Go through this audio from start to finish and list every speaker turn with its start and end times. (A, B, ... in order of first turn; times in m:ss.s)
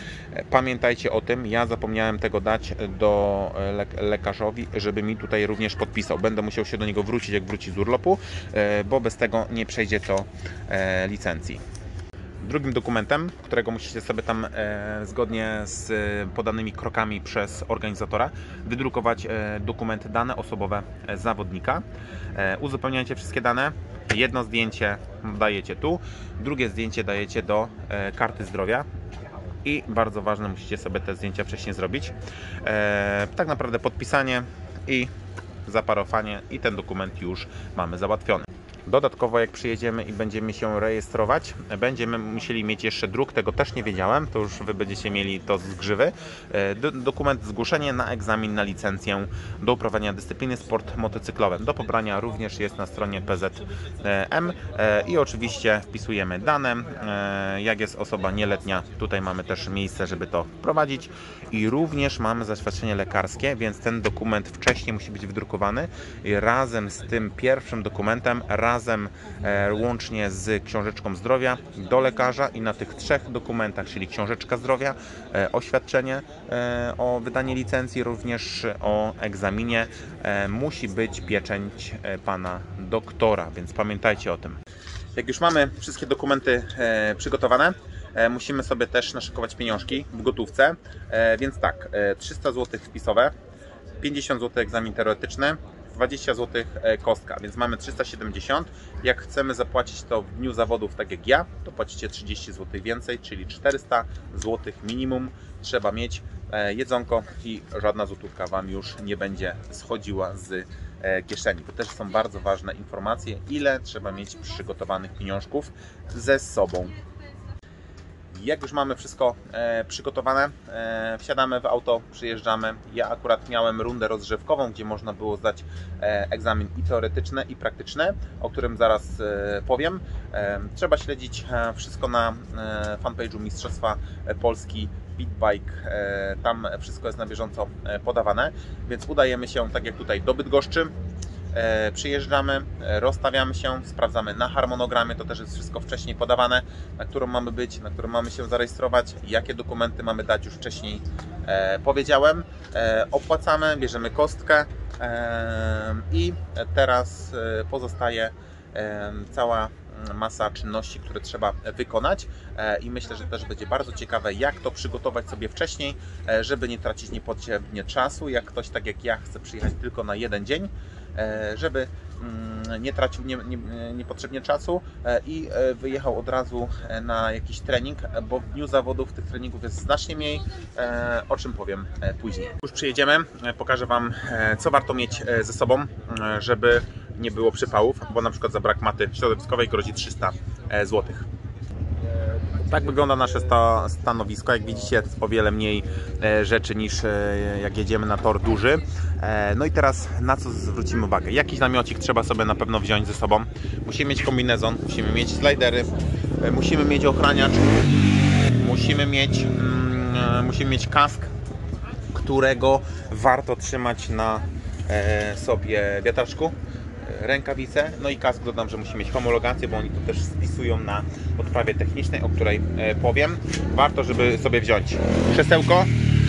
0:00.3-0:11.6 A
0:12.4-0:28.9 A
0:29.6-0:35.1 A
0:35.6-1:24.6 A
1:25.1-1:33.3 A
1:34.0-1:57.0 A
1:58.3-2:20.9 A
2:21.5-3:11.3 A
3:12.5-3:27.7 A
3:28.6-3:31.3 A
3:32.1-3:45.9 A